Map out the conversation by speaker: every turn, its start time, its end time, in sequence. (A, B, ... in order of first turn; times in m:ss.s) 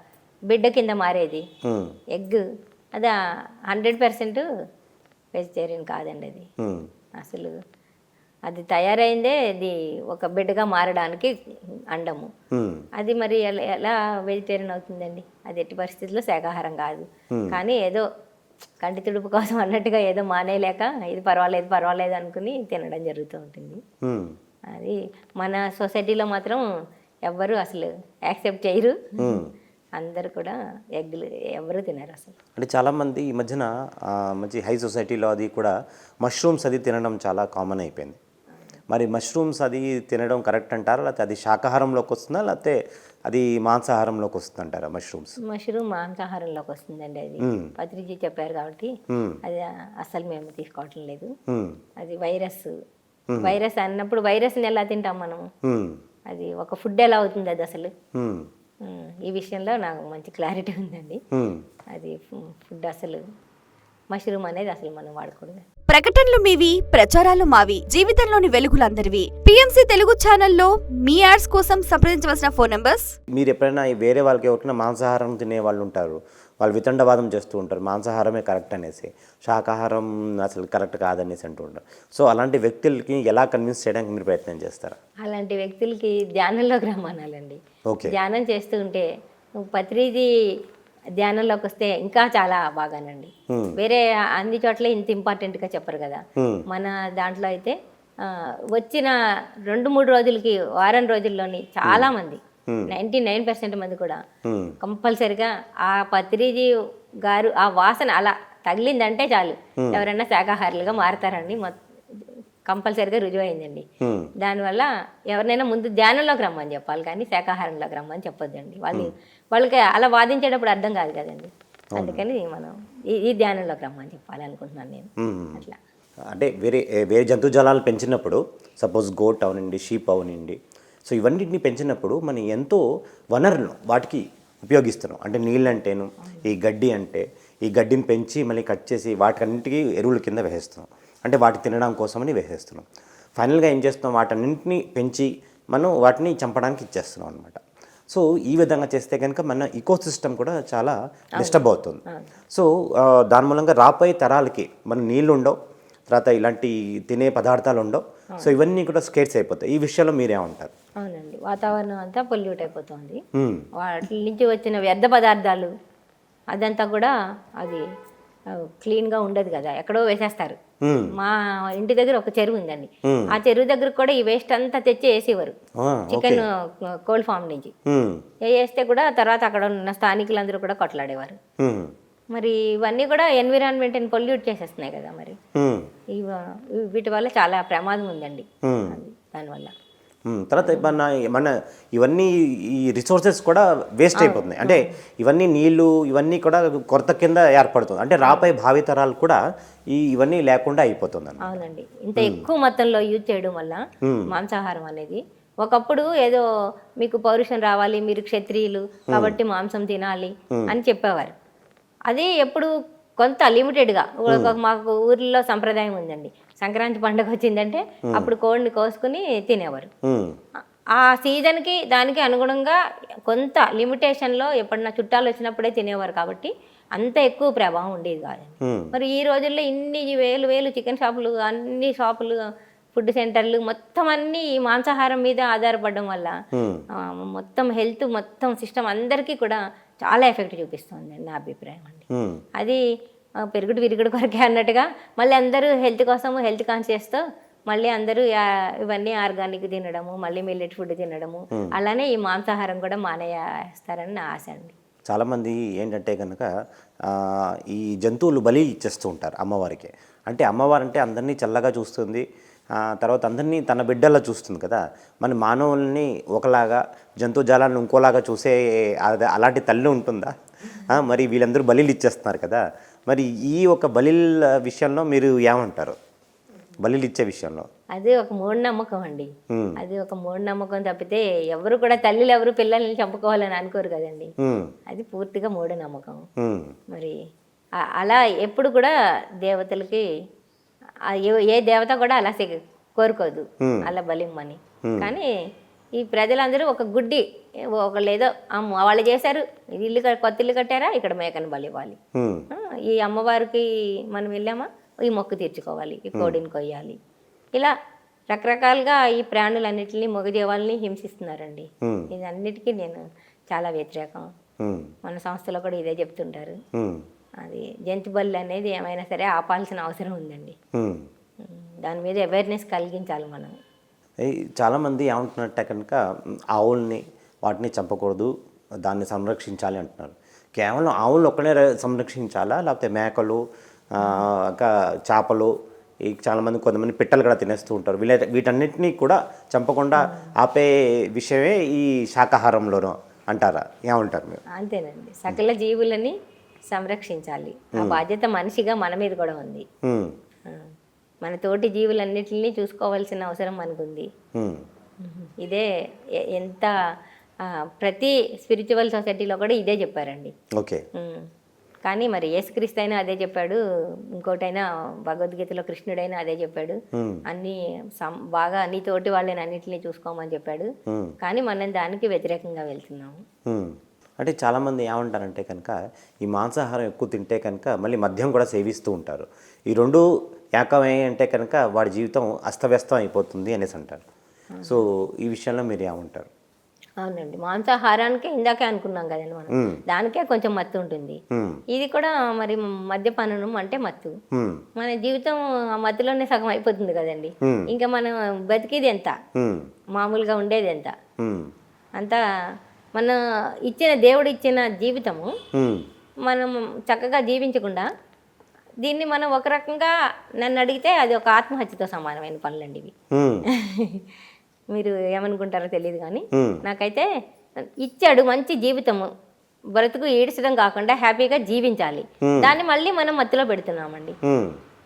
0:00.5-0:01.5 A
0:01.6-0:02.0 B
0:02.1-0:02.4 A
0:03.7-0:04.4 A
0:05.3-0:06.5 A
0:06.6-0:06.9 B
0:07.2-0:07.5 A
0:08.5-0:11.3 A
0:11.9-0:12.3 A
0:12.5-0:12.8 B
0:13.0-0:18.1 A
0:17.3-0:17.6 B
0:18.8-0:23.8 A
0:24.0-0:24.4 B
0:24.7-0:26.6 A
0:27.3-0:29.4 A
0:29.2-0:29.5 B
0:30.0-0:32.4 A
0:32.6-0:38.2 B
0:38.9-0:45.4 B
0:45.4-0:48.9 A
0:47.4-0:47.7 B
0:49.1-0:49.4 B
0:49.4-0:51.3 A
0:51.5-0:51.8 B
0:52.0-0:52.7 A
0:53.3-0:53.6 B
0:53.4-0:55.5 A
0:55.6-0:56.0 B
0:56.3-0:57.9 A
0:58.1-0:58.5 B
0:58.8-1:01.2 A
1:01.3-1:01.6 B
1:01.9-1:03.2 A
1:04.1-1:05.6 A
1:05.9-1:13.1 C
1:13.3-1:25.0 B
1:25.2-1:29.1 A
1:27.9-1:28.1 B
1:29.6-1:30.3 A
1:31.2-1:39.1 A
1:33.5-1:33.8 B
1:36.4-1:36.6 B
1:39.7-1:44.2 A
1:44.4-1:44.8 B
1:44.8-1:46.7 A
1:47.2-1:53.8 A
1:49.8-1:50.0 B
1:54.0-1:54.3 B
1:54.4-2:05.8 A
2:02.0-2:02.2 B
2:05.2-2:05.6 B
2:06.3-2:12.8 B
2:13.3-2:35.6 B
2:16.2-2:16.5 A
2:31.4-2:32.3 A
2:36.1-2:40.7 B
2:41.0-2:43.2 A
2:43.3-2:43.6 B
2:43.7-2:45.7 A
2:46.5-2:47.8 A
2:48.5-2:50.6 A
2:50.8-2:51.1 B
2:51.1-2:55.6 A
2:53.0-2:53.3 B
2:55.8-2:56.4 B
2:56.1-2:57.7 A
2:57.8-2:58.2 B
2:58.4-3:01.4 A
3:01.6-3:01.9 B
3:02.3-3:05.4 A
3:05.5-3:05.9 B
3:06.1-3:09.7 A
3:08.6-3:09.0 B
3:10.3-3:21.6 B
3:10.6-3:10.9 A
3:14.1-3:15.0 A
3:21.4-3:26.4 A
3:22.2-3:22.5 B
3:24.0-3:24.3 B
3:27.0-3:31.3 A
3:29.1-3:29.4 B
3:32.1-3:39.9 A
3:34.3-3:34.6 B
3:40.0-3:40.4 B
3:40.9-3:52.4 A
3:48.6-3:48.9 B
3:52.9-3:56.3 A
3:56.5-3:56.8 B
3:56.9-4:02.0 A
4:02.1-4:02.4 B
4:03.4-4:14.7 A
4:15.1-4:16.5 B
4:17.0-4:36.0 B
4:36.8-4:37.7 B
4:37.9-4:44.3 A
4:39.5-4:39.8 B
4:44.4-4:44.7 B
4:44.9-4:46.3 A
4:46.4-4:46.7 B
4:46.9-4:47.2 A
4:48.0-4:50.0 A
4:51.1-4:55.3 A
4:53.6-4:53.9 B
4:54.8-4:55.1 B
4:56.0-5:02.0 A
5:02.1-5:02.4 B
5:02.5-5:07.0 A
5:06.1-5:06.4 B
5:08.3-5:14.3 A
5:11.8-5:12.1 B
5:14.6-5:14.9 B
5:15.0-5:16.6 A
5:16.7-5:17.0 B
5:17.4-5:20.6 A
5:20.7-5:21.1 B
5:21.4-5:23.5 A
5:24.2-5:26.0 B
5:26.5-5:28.3 B
5:28.8-5:33.4 B
5:33.9-5:35.5 B
5:34.0-5:34.3 A
5:36.0-5:44.4 B
5:40.0-5:40.3 A
5:44.5-5:46.2 A
5:46.7-5:49.6 A
5:47.7-5:48.0 B
5:49.8-5:50.1 B
5:50.5-5:50.7 A
5:51.2-5:54.1 A
5:54.3-5:54.6 B
5:55.0-5:55.7 A
5:56.3-5:56.7 A
5:57.4-6:00.3 A
6:00.5-6:00.8 B
6:00.9-6:01.3 A
6:01.8-6:03.6 A
6:04.2-6:10.7 A
6:06.9-6:07.2 B
6:10.9-6:11.1 B
6:11.2-6:13.2 A
6:13.5-6:20.0 B
6:20.6-6:24.0 B
6:24.5-6:24.8 A
6:24.6-6:26.3 B
6:27.0-6:31.2 A
6:29.5-6:29.8 B
6:31.3-6:31.6 B
6:31.7-6:34.1 A
6:34.3-6:34.6 B
6:34.8-6:39.2 A
6:37.4-6:37.7 B
6:39.4-6:39.7 B
6:40.0-6:40.9 A
6:41.2-6:41.5 B
6:43.0-6:45.3 A
6:45.5-6:45.9 B
6:46.2-6:47.9 A
6:48.8-6:52.9 A
6:53.1-6:53.4 B
6:53.5-6:54.1 A
6:54.7-6:57.1 A
6:56.3-6:56.6 B
6:57.6-6:59.1 A
6:59.7-7:04.2 A
7:02.2-7:02.5 B
7:04.2-7:04.6 B